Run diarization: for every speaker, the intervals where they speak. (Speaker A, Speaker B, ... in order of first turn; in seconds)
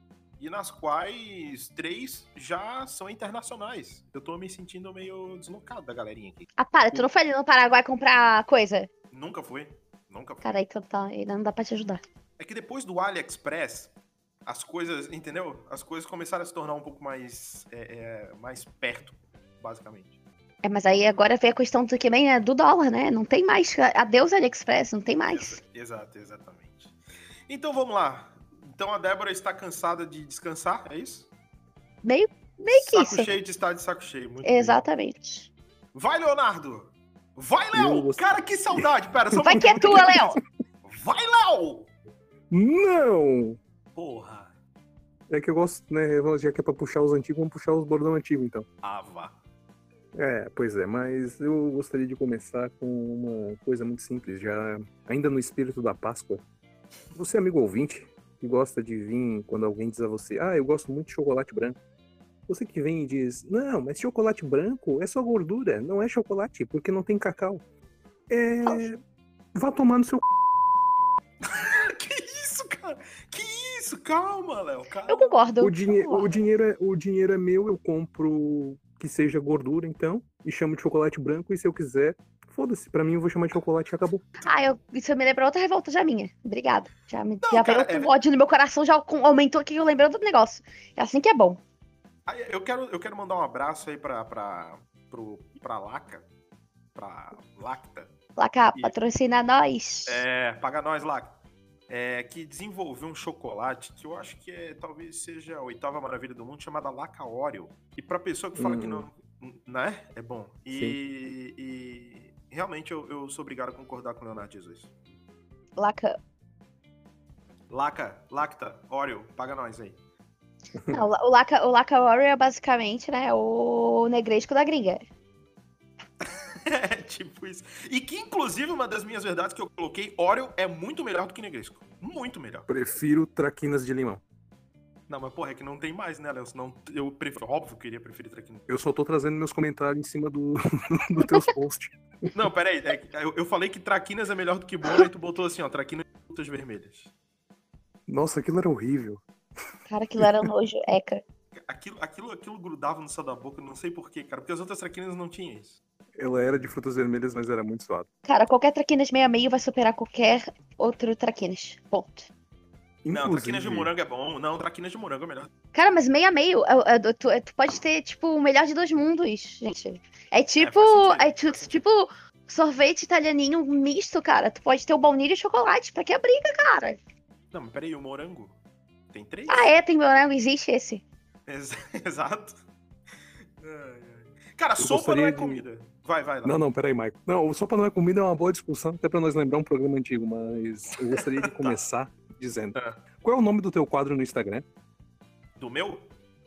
Speaker A: 0.4-7.0, 9.1-10.5, 12.4-13.9, 14.5-20.2, 25.3-26.9, 27.5-31.3, 32.7-34.9, 35.9-41.9, 44.0-44.5, 48.8-49.4, 71.4-75.4, 87.4-88.1, 92.3-96.3, 97.0-98.1, 100.1-101.4, 101.9-114.9, 117.7-120.0, 126.2-132.7, 135.1-138.7, 142.3-147.1, 151.6-155.8, 156.3-156.7, 163.1-165.5, 170.6-171.8, 177.5-178.6, 179.1-179.7, 181.5-182.6, 183.6-186.6, 191.0-191.8, 192.8-193.0, 195.6-196.1
Speaker B: 6.6-8.9, 10.4-12.0, 20.6-25.6, 32.0-33.3, 34.4-35.5, 39.4-40.4, 75.1-76.3, 84.4-91.6, 98.4-100.2, 115.8-116.2, 120.9-125.0, 149.9-151.2, 158.2-162.3, 165.7-177.0, 179.5-181.0
Speaker C: 37.7-38.8, 39.5-40.4, 42.5-43.6, 45.3-48.7, 50.1-56.4, 57.1-61.8, 62.5-67.6, 68.3-69.0, 69.5-70.3, 75.6-84.3, 108.6-109.1, 132.7-134.2, 138.7-142.0, 148.1-149.2, 150.2-150.5, 156.2-158.1, 163.0-163.9, 184.8-185.6, 186.4-194.7